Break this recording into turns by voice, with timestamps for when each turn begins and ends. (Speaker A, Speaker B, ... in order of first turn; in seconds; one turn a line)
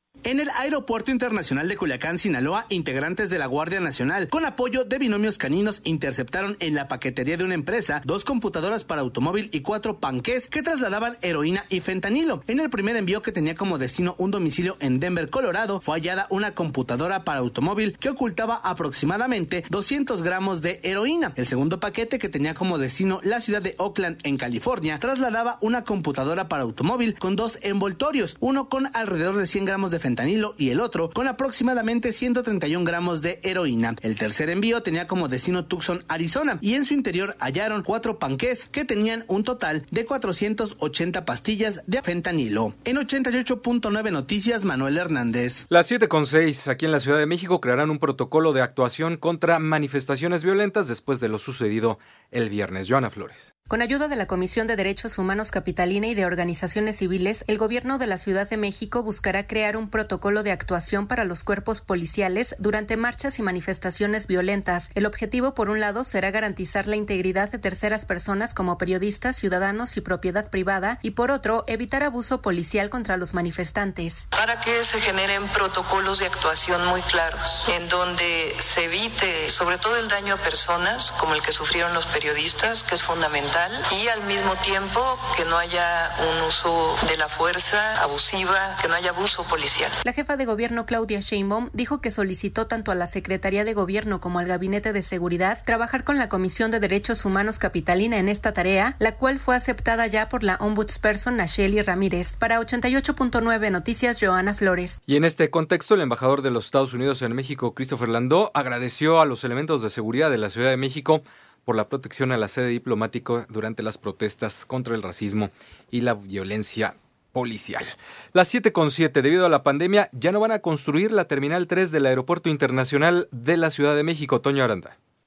Speaker A: 0.2-45.6
Speaker B: 45.7-53.5
Speaker C: 53.7-74.2
Speaker D: 74.3-90.0
Speaker C: 90.0-105.0
Speaker B: 105.1-125.0